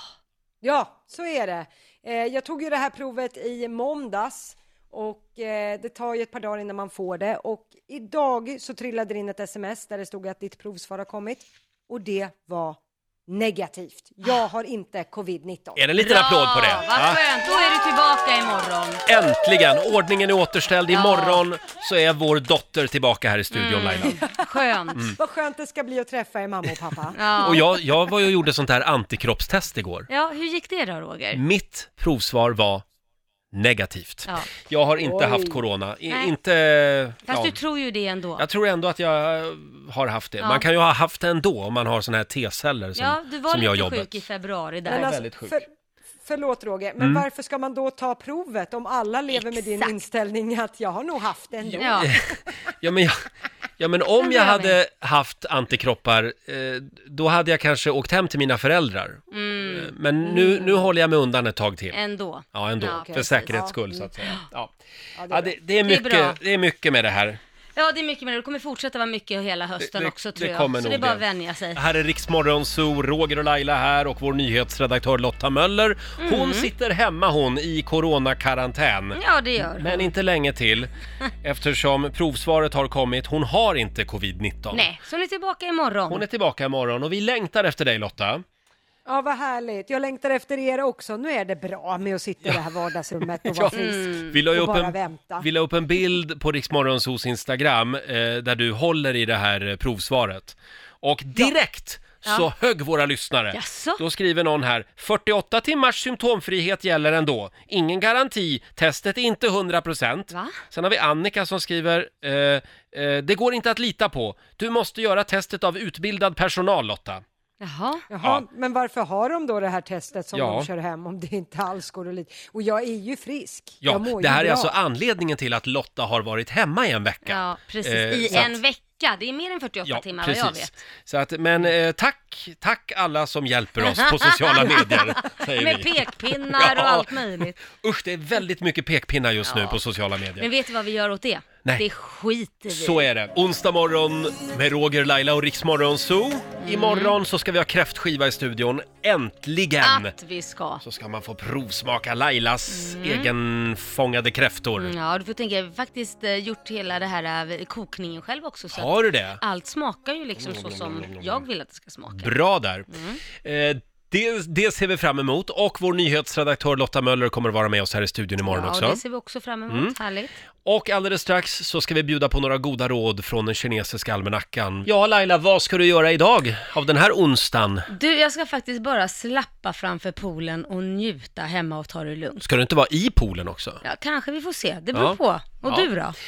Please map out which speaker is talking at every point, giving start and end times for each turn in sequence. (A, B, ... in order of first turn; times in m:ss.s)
0:00.6-0:15.8 A
0:15.8-0:17.2 B
0:16.0-0:19.0 C
0:19.1-0:24.2 B
0:20.9-0:21.4 C
0:23.5-0:25.1 C
0:24.1-0:27.3 A
0:27.2-0:27.7 C
0:27.4-0:30.1 B
0:30.1-0:31.4 C
0:31.3-0:32.8 B
0:33.5-0:37.6 B
0:35.0-0:35.6 A
0:37.3-0:38.4 C
0:38.4-0:44.2 B
0:43.0-0:45.2 C
0:44.9-0:45.7 A
0:44.9-0:45.6 B
0:46.2-0:52.1 A
0:47.0-0:47.2 B
0:49.3-0:49.9 C
0:51.8-0:52.2 B
0:51.8-0:52.2 C
0:52.8-0:53.3 B
0:53.8-1:02.0 B
0:54.2-0:54.8 C
0:59.3-1:00.9 C
1:01.9-1:04.5 C
1:02.5-1:04.7 B
1:02.8-1:03.8 A
1:05.2-1:05.6 A
1:05.3-1:07.4 B
1:05.8-1:06.4 C
1:07.8-1:11.8 C
1:09.8-1:20.9 B
1:16.2-1:16.7 C
1:19.2-1:20.1 C
1:21.4-1:24.9 B
1:24.7-1:26.2 C
1:26.1-1:28.4 B
1:29.1-1:35.5 A
1:33.5-1:57.2 B
1:33.8-1:34.3 C
1:43.5-1:44.0 C
1:50.3-1:50.6 C
1:57.6-1:58.1 C
1:58.1-2:04.7 A
2:00.3-2:00.7 B
2:03.8-2:08.6 B
2:07.2-2:10.7 C
2:09.9-2:16.0 B
2:13.8-2:17.6 C
2:16.5-2:20.5 B
2:19.5-2:19.8 C
2:20.4-2:23.1 C
2:22.7-2:30.1 B
2:26.6-2:27.2 C
2:29.8-2:30.8 C
2:30.8-2:35.0 B
2:32.7-2:33.3 C
2:34.8-2:42.4 C
2:38.7-2:39.4 B
2:40.4-2:41.4 B
2:42.1-2:49.0 B
2:42.9-2:43.2 C
2:48.4-2:50.3 C
2:49.7-2:50.0 B
2:50.6-2:57.9 B
2:57.9-3:02.4 C
3:02.4-3:03.8 B
3:03.8-3:06.2 C
3:04.9-3:05.9 B